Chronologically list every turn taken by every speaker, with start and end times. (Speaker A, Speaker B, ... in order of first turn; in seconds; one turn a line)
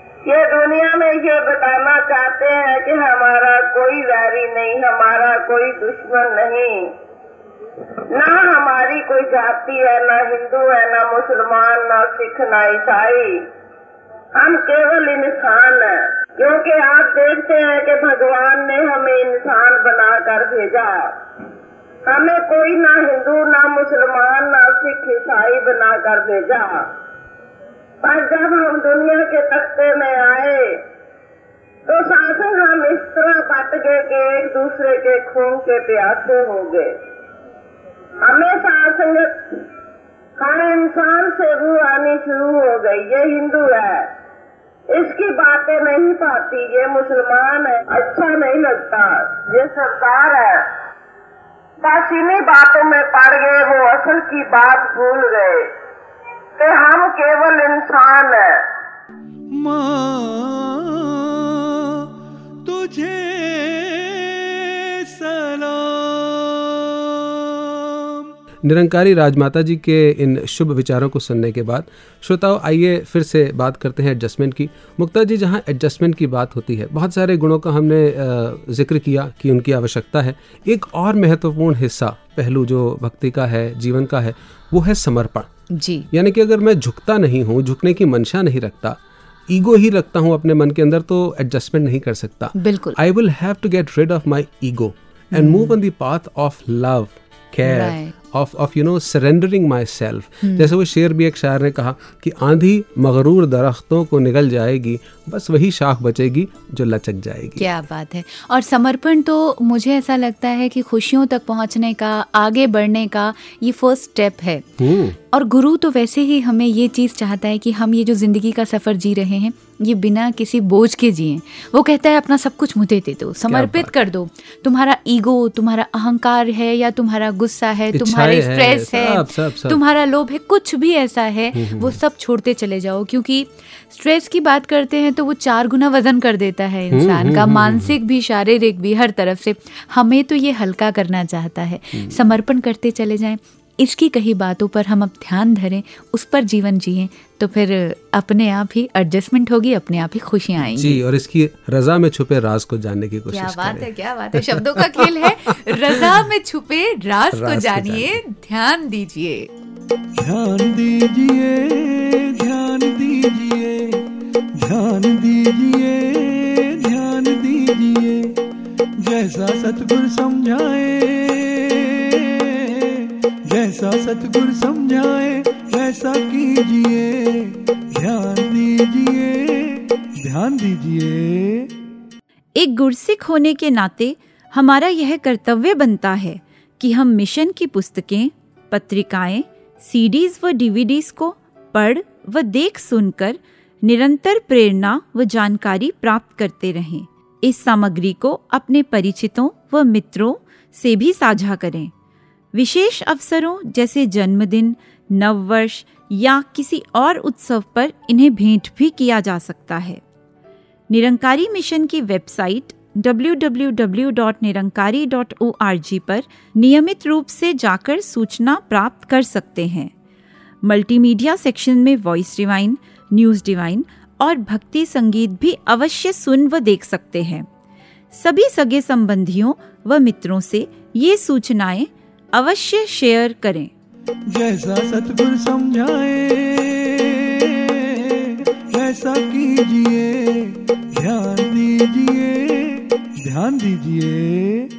Speaker A: 0.2-6.9
Speaker A: 8.1-13.4
Speaker A: 14.3-21.1
Speaker A: 22.1-26.9
Speaker A: 28.0-30.8
Speaker A: 31.9-36.9
Speaker A: 38.2-39.6
Speaker A: 40.4-44.1
Speaker A: 44.9-50.7
Speaker A: 51.8-55.7
Speaker A: 56.6-58.6
Speaker B: 59.5-62.1
Speaker B: 62.6-68.2
Speaker C: 68.6-85.5
Speaker D: 85.7-86.1
Speaker C: 86.1-107.7
Speaker D: 92.6-93.0
Speaker D: 95.3-95.7
Speaker D: 97.6-98.1
Speaker D: 107.6-114.7
Speaker C: 114.8-115.2
Speaker D: 115.3-151.0
Speaker C: 123.5-123.9
Speaker C: 127.9-129.8
Speaker C: 131.5-132.0
Speaker C: 136.9-137.9
Speaker C: 150.6-156.2
Speaker D: 153.3-159.5
Speaker C: 157.3-158.2
Speaker B: 160.2-164.0
Speaker B: 164.6-168.3
Speaker B: 169.0-181.7
Speaker E: 182.6-201.9
Speaker E: 202.5-210.0
Speaker E: 210.9-219.9
Speaker E: 220.6-227.5
Speaker E: 228.1-233.7
Speaker B: 234.3-244.7